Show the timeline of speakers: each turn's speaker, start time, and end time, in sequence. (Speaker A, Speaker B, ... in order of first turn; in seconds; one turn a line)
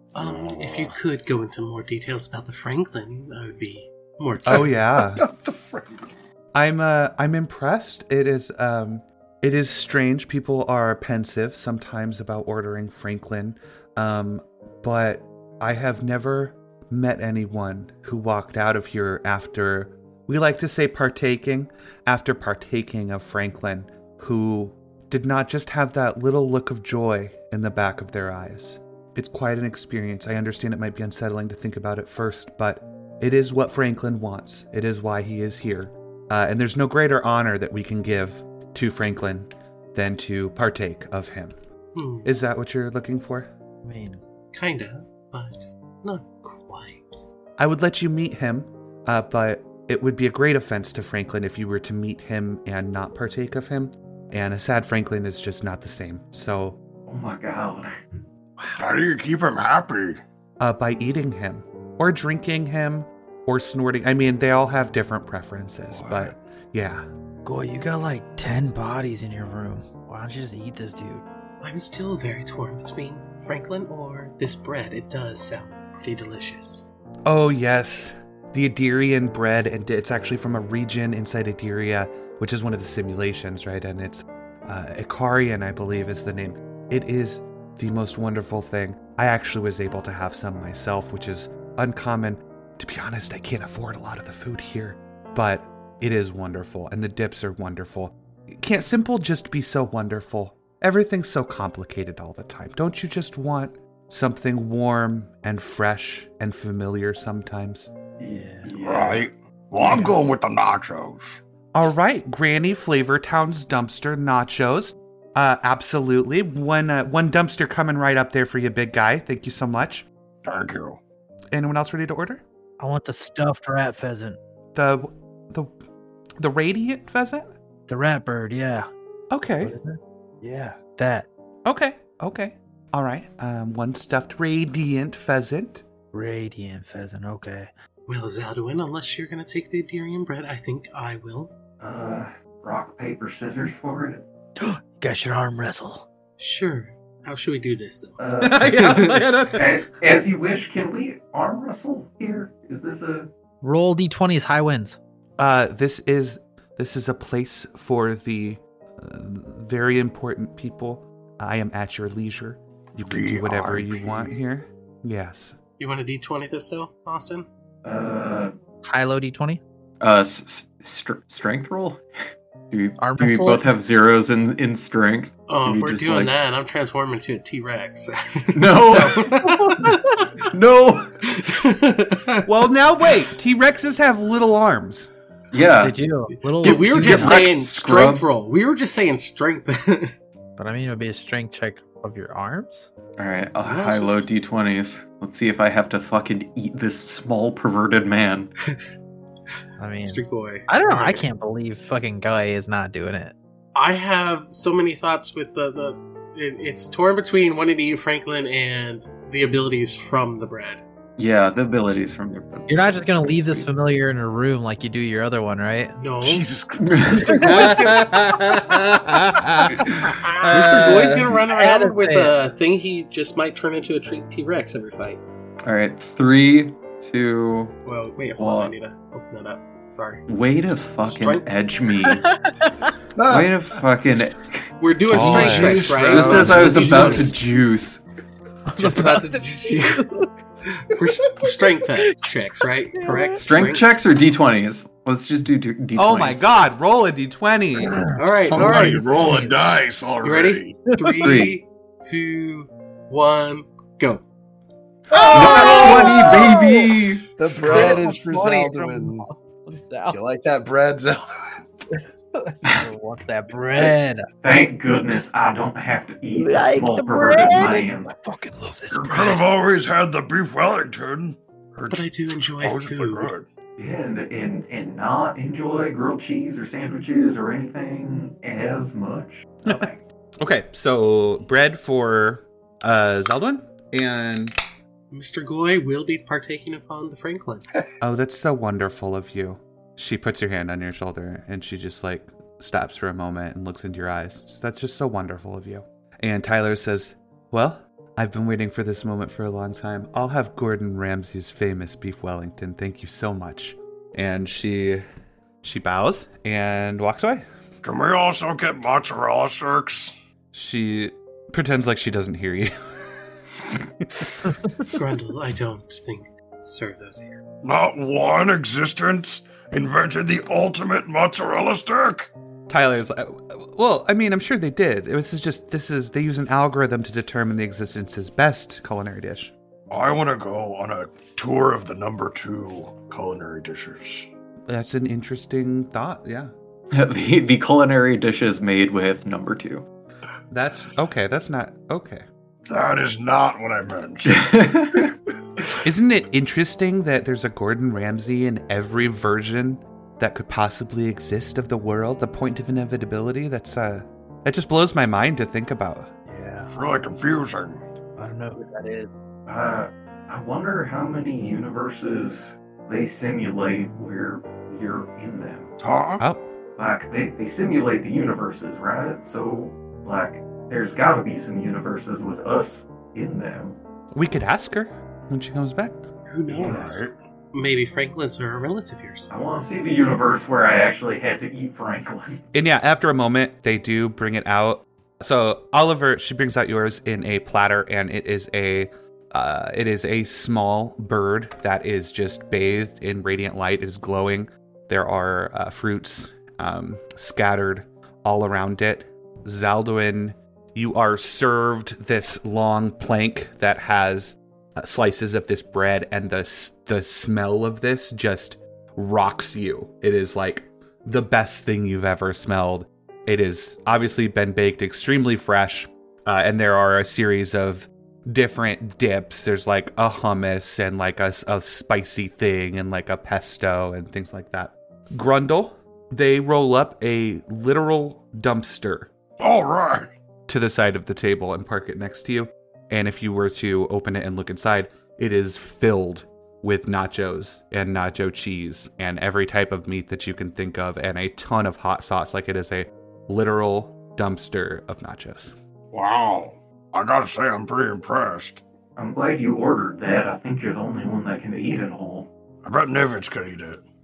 Speaker A: 0.1-4.7
Speaker B: 0.2-0.9
Speaker C: 4.5-5.2
Speaker B: 5.2-5.8
Speaker C: 6.5-41.5
Speaker A: 42.0-42.3
Speaker C: 42.2-43.5
Speaker D: 43.8-44.2
Speaker A: 44.5-47.2
Speaker C: 47.6-56.8
Speaker E: 57.1-57.9
Speaker B: 58.8-60.2
Speaker C: 60.6-67.1
Speaker B: 65.9-66.3
Speaker D: 67.5-71.2
Speaker A: 71.6-76.9
Speaker C: 77.2-107.9
Speaker D: 108.2-108.7
Speaker E: 108.6-109.3
Speaker B: 108.8-111.4
Speaker E: 109.8-110.1
Speaker C: 111.7-120.0
Speaker B: 120.4-121.0
Speaker C: 121.5-122.4
Speaker D: 122.8-124.4
Speaker C: 124.8-125.7
Speaker C: 126.4-127.5
Speaker D: 127.9-128.9
Speaker C: 129.3-129.8
Speaker D: 129.6-131.3
Speaker C: 131.7-135.8
Speaker D: 136.1-137.7
Speaker A: 138.1-141.5
Speaker E: 141.8-144.2
Speaker D: 144.6-146.1
Speaker A: 146.4-149.2
Speaker E: 148.2-153.3
Speaker C: 148.4-149.7
Speaker D: 153.6-155.0
Speaker C: 155.4-165.6
Speaker B: 163.0-164.3
Speaker A: 165.8-167.5
Speaker E: 167.8-168.5
Speaker D: 168.8-169.6
Speaker F: 170.0-172.0
Speaker F: 172.7-176.3
Speaker D: 173.0-173.7
Speaker A: 175.5-180.0
Speaker F: 178.5-179.4
Speaker F: 180.5-181.1
Speaker A: 181.4-182.5
Speaker C: 182.5-185.1
Speaker F: 185.5-186.0
Speaker D: 185.8-187.4
Speaker A: 186.6-190.1
Speaker F: 186.6-188.2
Speaker D: 190.6-192.9
Speaker F: 193.2-198.5
Speaker A: 193.6-194.3
Speaker D: 199.8-203.3
Speaker A: 200.0-201.2
Speaker A: 203.8-210.8
Speaker F: 211.2-213.6
Speaker D: 212.7-215.9
Speaker A: 216.0-218.3
Speaker B: 216.3-216.9
Speaker F: 216.8-217.5
Speaker D: 217.4-217.8
Speaker C: 217.5-219.9
Speaker C: 220.5-221.3
Speaker A: 220.5-225.2
Speaker D: 221.4-222.3
Speaker F: 225.6-227.7
Speaker A: 227.8-231.5
Speaker F: 228.4-228.7
Speaker F: 230.3-232.3
Speaker G: 233.2-233.6
Speaker F: 233.3-238.0
Speaker A: 234.8-237.5
Speaker G: 235.1-237.3
Speaker D: 238.7-240.2
Speaker A: 238.8-240.2
Speaker A: 240.9-243.9
Speaker D: 243.0-243.4
Speaker F: 243.4-246.4
Speaker C: 245.9-248.1
Speaker D: 247.8-249.5
Speaker A: 248.1-249.2
Speaker B: 248.5-250.9
Speaker A: 250.2-254.2
Speaker D: 250.9-251.4
Speaker F: 251.2-251.6
Speaker D: 255.1-257.0
Speaker F: 255.3-257.3
Speaker G: 257.4-259.3
Speaker D: 257.6-260.2
Speaker G: 260.1-261.3
Speaker D: 261.9-264.3
Speaker E: 264.4-268.1
Speaker D: 266.4-269.4
Speaker B: 268.9-273.5
Speaker A: 271.9-273.3
Speaker E: 273.8-280.0
Speaker C: 279.6-279.9
Speaker C: 280.4-284.6
Speaker A: 285.1-287.6
Speaker C: 288.0-305.0
Speaker C: 305.6-307.4
Speaker B: 307.8-310.1
Speaker C: 310.5-312.7
Speaker C: 314.0-314.6
Speaker A: 314.9-317.4
Speaker B: 317.6-322.3
Speaker C: 322.7-329.5
Speaker B: 329.9-334.3
Speaker C: 334.7-336.5
Speaker F: 336.9-339.9
Speaker C: 340.5-342.3
Speaker B: 342.7-344.5
Speaker F: 344.2-345.1
Speaker C: 345.8-356.1
Speaker D: 356.3-356.7
Speaker B: 356.7-357.8
Speaker D: 358.2-359.1
Speaker E: 359.5-365.7
Speaker B: 365.8-366.2
Speaker C: 366.2-366.5
Speaker E: 366.8-373.8
Speaker C: 374.1-376.0
Speaker A: 376.3-379.3
Speaker E: 376.5-377.0
Speaker B: 376.5-377.1
Speaker E: 379.3-382.4
Speaker C: 382.5-429.1
Speaker B: 429.4-430.1
Speaker C: 430.5-445.5
Speaker B: 445.9-448.6
Speaker E: 449.0-452.3
Speaker B: 452.6-453.8